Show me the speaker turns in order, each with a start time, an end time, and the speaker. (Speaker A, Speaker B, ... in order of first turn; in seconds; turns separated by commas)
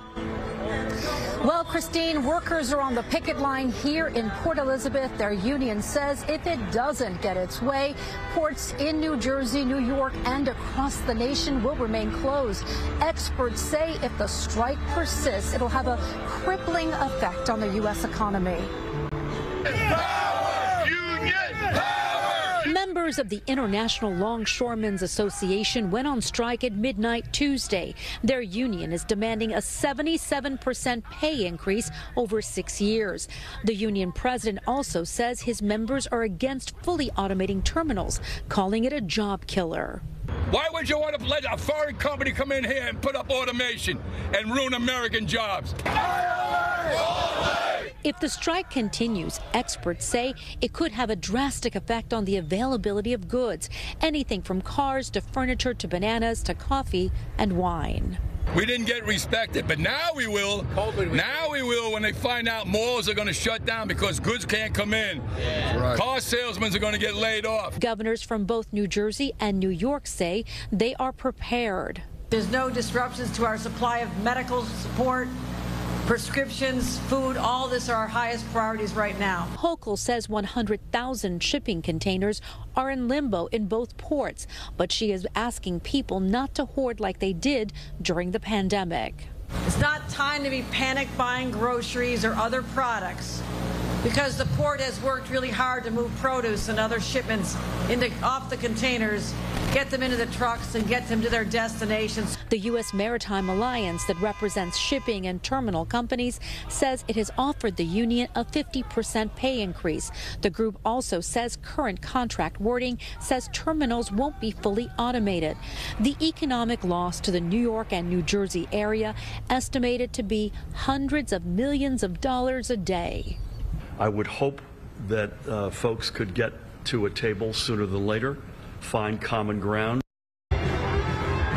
Speaker A: 1.4-18.7, Speaker B: 20.9-22.4, Speaker A: 22.6-40.0, Speaker B: 40.5-45.7, Speaker A: 48.0-58.2, Speaker B: 58.5-67.7, Speaker A: 67.8-72.0, Speaker C: 72.3-75.3, Speaker C: 76.0-79.5, Speaker A: 79.5-89.3, Speaker C: 89.7-93.4, Speaker C: 94.0-102.3, Speaker A: 102.5-123.4, Speaker D: 124.0-130.0